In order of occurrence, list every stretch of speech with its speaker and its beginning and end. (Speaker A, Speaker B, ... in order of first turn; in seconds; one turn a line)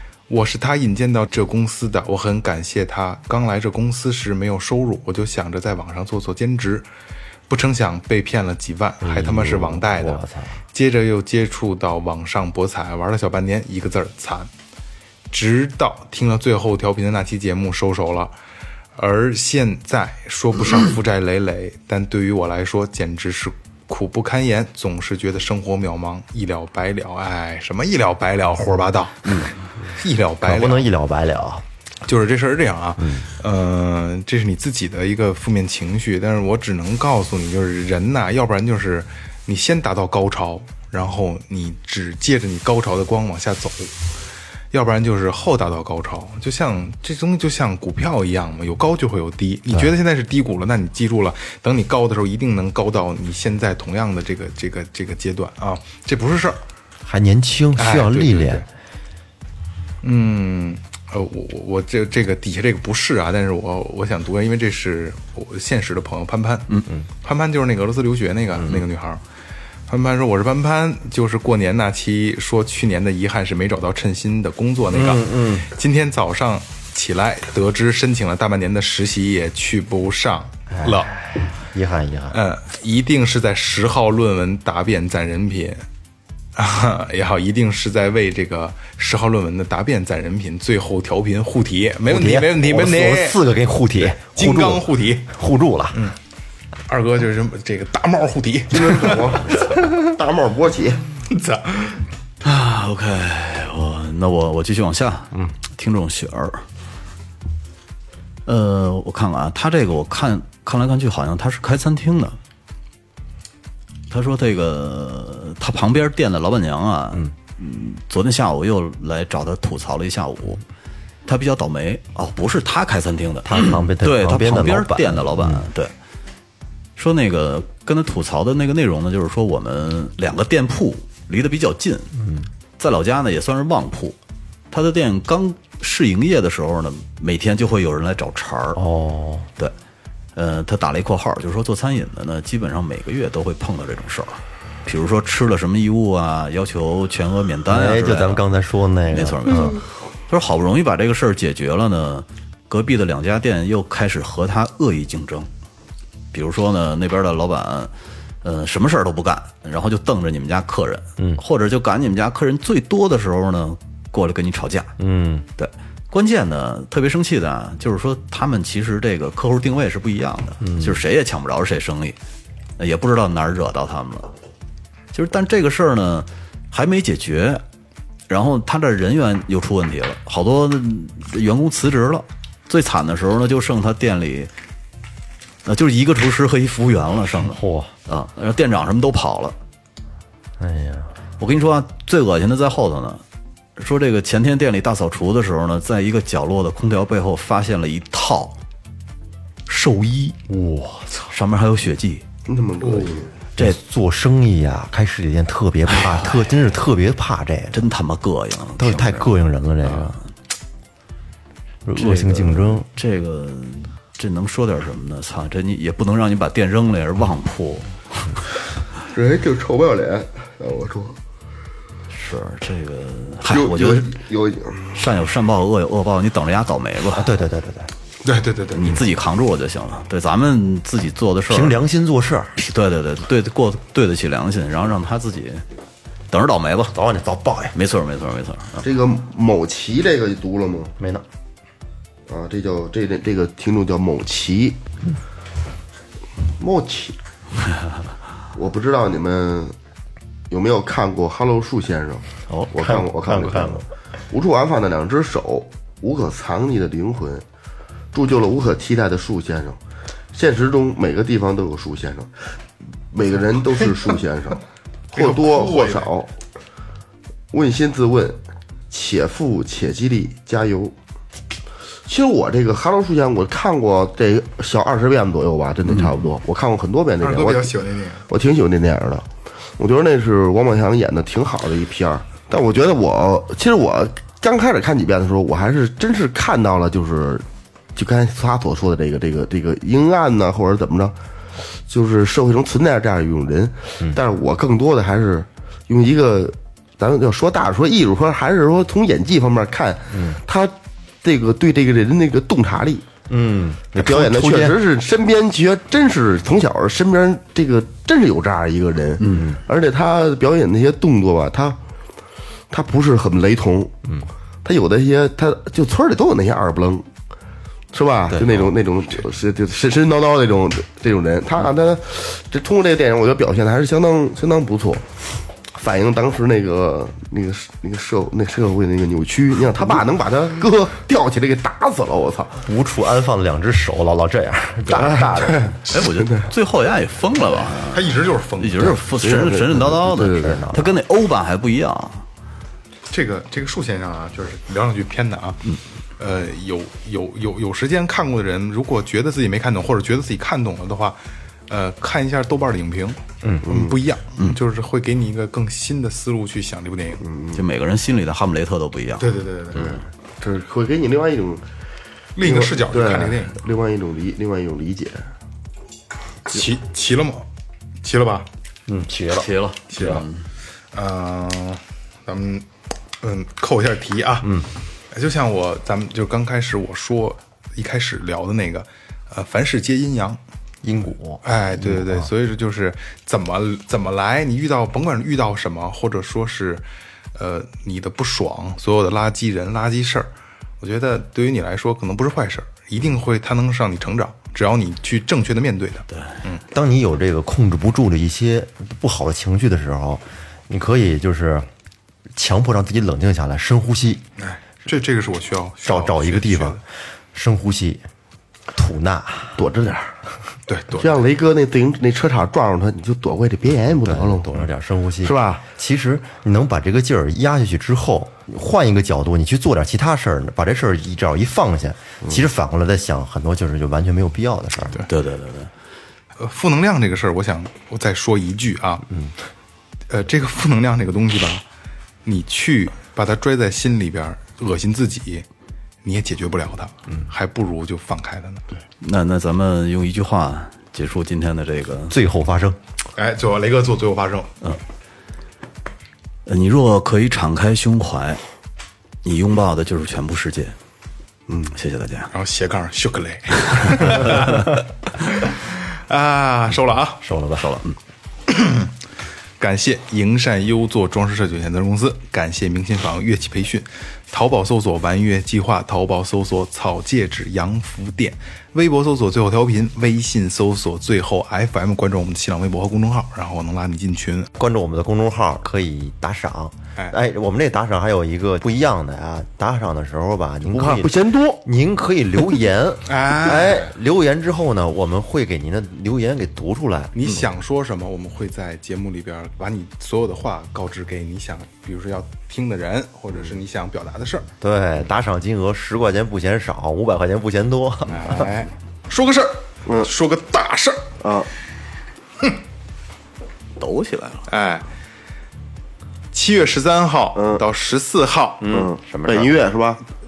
Speaker A: 0.3-6.9
Speaker A: 7.5-10.2
Speaker B: 9.0-10.6
Speaker A: 10.7-14.5
Speaker A: 15.3-18.3
Speaker A: 19.0-30.9
Speaker C: 29.2-29.5
Speaker B: 30.4-31.6
Speaker A: 32.0-43.9
Speaker B: 33.0-33.3
Speaker A: 44.7-56.6
Speaker B: 57.0-58.6
Speaker A: 57.8-58.7
Speaker A: 60.0-69.2
Speaker A: 69.9-81.1
Speaker B: 74.9-75.7
Speaker B: 80.7-82.4
Speaker A: 82.3-85.8
Speaker A: 86.6-93.4
Speaker B: 92.1-96.0
Speaker A: 94.0-95.3
Speaker A: 96.9-99.6
Speaker D: 98.7-101.0
Speaker A: 101.3-102.0
Speaker C: 102.4-106.6
Speaker C: 108.5-112.4
Speaker C: 114.1-120.6
Speaker C: 121.3-125.9
Speaker B: 123.5-125.6
Speaker C: 127.0-132.2
Speaker B: 132.2-132.5
Speaker C: 132.8-134.2
Speaker C: 134.7-138.8
Speaker B: 138.8-139.5
Speaker C: 140.3-148.4
Speaker B: 147.7-149.8
Speaker C: 149.1-155.5
Speaker C: 156.3-164.9
Speaker B: 165.0-165.5
Speaker C: 165.6-172.2
Speaker B: 170.6-171.0
Speaker C: 172.8-174.3
Speaker C: 175.1-177.6
Speaker C: 178.3-184.5
Speaker C: 185.7-189.6
Speaker B: 187.5-187.9
Speaker B: 190.6-191.1
Speaker C: 191.4-193.2
Speaker C: 193.8-198.6
Speaker C: 199.7-200.4
Speaker B: 200.5-201.0
Speaker C: 201.3-202.2
Speaker D: 202.5-203.3
Speaker A: 202.8-203.2
Speaker B: 203.6-207.8
Speaker C: 207.7-209.3
Speaker B: 208.8-210.2
Speaker C: 209.8-210.1
Speaker B: 211.8-212.9
Speaker C: 212.0-218.4
Speaker D: 219.1-221.2
Speaker C: 222.2-224.2
Speaker D: 223.5-225.0
Speaker C: 224.9-227.3
Speaker B: 227.2-227.9
Speaker A: 228.2-229.0
Speaker C: 228.7-231.8
Speaker B: 231.5-232.6
Speaker C: 232.6-235.6
Speaker C: 236.3-236.9
Speaker B: 236.9-237.8
Speaker C: 237.7-238.9
Speaker D: 238.8-240.9
Speaker B: 241.0-241.2
Speaker D: 242.3-244.8
Speaker D: 246.6-247.2
Speaker D: 248.5-249.8
Speaker D: 250.5-257.4
Speaker B: 252.5-253.8
Speaker D: 258.1-259.8
Speaker D: 260.3-262.3
Speaker D: 263.1-266.3
Speaker A: 265.1-266.1
Speaker D: 267.5-268.4
Speaker D: 268.9-270.9
Speaker D: 272.1-277.7
Speaker A: 277.2-278.3
Speaker D: 278.3-279.3
Speaker D: 279.8-291.2
Speaker D: 291.9-303.1
Speaker B: 300.1-300.4
Speaker B: 303.3-304.8
Speaker D: 303.9-311.8
Speaker B: 309.2-309.6
Speaker D: 312.7-314.0
Speaker D: 314.6-317.1
Speaker D: 317.9-325.1
Speaker B: 318.3-318.7
Speaker D: 325.7-332.6
Speaker B: 332.6-335.8
Speaker C: 335.9-342.2
Speaker D: 335.9-336.5
Speaker A: 337.9-339.0
Speaker D: 339.2-340.7
Speaker B: 340.3-340.9
Speaker A: 343.1-345.6
Speaker A: 346.2-357.2
Speaker D: 353.6-354.0
Speaker D: 357.2-357.6
Speaker C: 357.5-359.3
Speaker A: 359.2-359.9
Speaker D: 359.8-361.6
Speaker A: 362.4-363.6
Speaker D: 362.4-365.2
Speaker A: 366.5-367.5
Speaker A: 368.0-368.5
Speaker B: 368.9-370.1
Speaker C: 369.4-370.4
Speaker A: 369.9-370.2
Speaker A: 370.9-372.7
Speaker A: 373.2-374.5
Speaker B: 374.4-374.7
Speaker A: 375.1-380.4
Speaker B: 380.8-382.3
Speaker A: 381.4-390.3
Speaker A: 390.8-396.6
Speaker B: 396.7-401.7
Speaker B: 402.4-404.2
Speaker A: 404.4-406.8
Speaker B: 405.8-406.8
Speaker B: 407.3-408.0
Speaker B: 408.7-409.6
Speaker D: 409.6-410.1
Speaker A: 410.7-411.1
Speaker D: 411.0-414.5
Speaker B: 414.0-425.0
Speaker D: 415.2-415.6
Speaker C: 425.1-425.7
Speaker A: 426.4-429.1
Speaker A: 430.1-431.6
Speaker A: 432.2-435.4
Speaker A: 436.0-438.7
Speaker C: 439.0-442.2
Speaker B: 442.1-442.8
Speaker A: 443.1-444.5
Speaker C: 446.5-448.4
Speaker C: 449.2-450.8
Speaker C: 451.7-452.3
Speaker A: 452.3-457.2
Speaker B: 457.2-457.8
Speaker C: 457.6-457.9
Speaker A: 458.5-458.9
Speaker A: 459.6-474.5
Speaker B: 474.6-487.4
Speaker D: 480.7-481.6
Speaker A: 483.1-483.9
Speaker A: 487.1-494.5
Speaker B: 494.6-498.5
Speaker A: 498.1-501.0
Speaker D: 501.2-501.5
Speaker C: 503.8-504.5
Speaker A: 504.5-504.9
Speaker A: 506.3-508.7
Speaker D: 507.4-507.6
Speaker B: 508.6-509.5
Speaker D: 508.7-510.0